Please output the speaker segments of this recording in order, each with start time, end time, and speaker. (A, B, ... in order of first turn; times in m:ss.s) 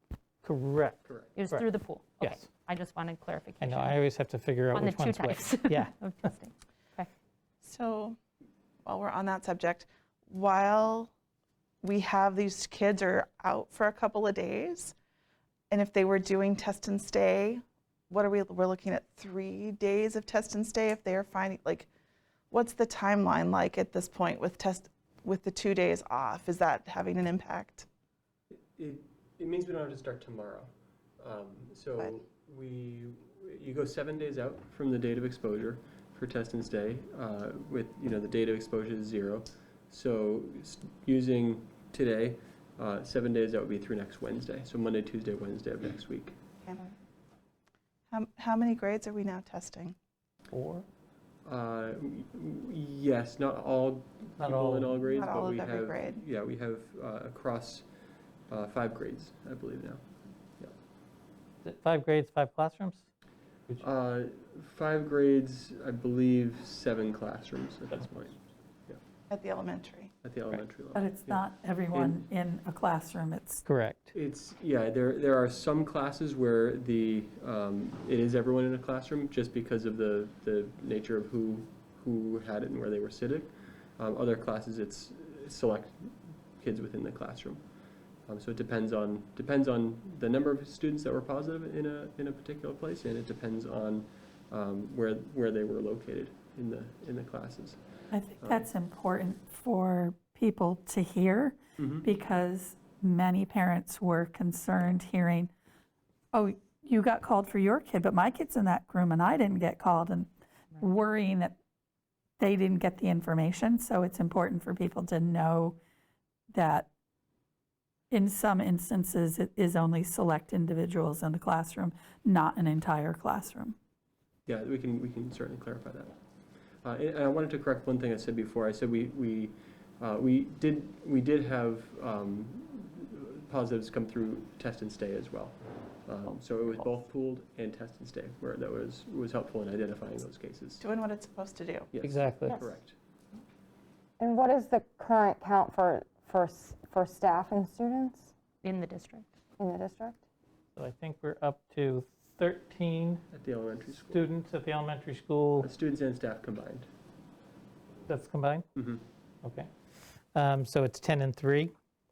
0:00.4-0:01.6 A
0:01.4-0:04.0 B
0:02.2-0:02.4 A
0:03.6-0:05.9 A
0:04.7-0:07.1 B
0:07.6-0:08.2 C
0:08.8-0:11.1 C
0:11.8-0:14.9 C
0:15.7-0:21.9 C
0:22.5-0:27.8 C
0:28.8-0:46.4 D
0:46.6-0:46.9 C
0:48.1-0:49.9 C
0:50.5-0:50.8 A
0:51.4-0:57.8 D
0:54.4-0:55.0 A
0:55.0-0:56.2 C
0:58.5-1:00.0 D
1:01.6-1:03.0 A
1:03.8-1:09.0 D
1:09.3-1:10.1 C
1:10.2-1:12.2 D
1:10.9-1:13.6 E
1:13.6-1:14.1 A
1:14.1-1:27.6 D
1:28.3-1:37.8 D
1:38.1-1:45.5 E
1:38.4-1:38.6 D
1:41.8-1:42.0 D
1:46.3-1:51.6 E
1:52.4-1:55.8 E
1:56.5-1:56.9 E
1:58.1-2:03.8 E
2:04.4-2:06.2 D
2:06.8-2:20.8 D
2:20.8-2:21.9 C
2:21.9-2:22.9 D
2:22.0-2:22.6 A
2:24.2-2:28.3 F
2:28.6-2:29.3 B
2:29.6-2:30.2 F
2:30.8-2:33.2 A
2:33.3-2:34.2 D
2:34.1-2:35.7 A
2:35.6-2:36.9 D
2:38.0-2:38.6 A
2:38.8-2:39.0 D
2:39.4-2:39.7 A
2:40.3-2:41.7 A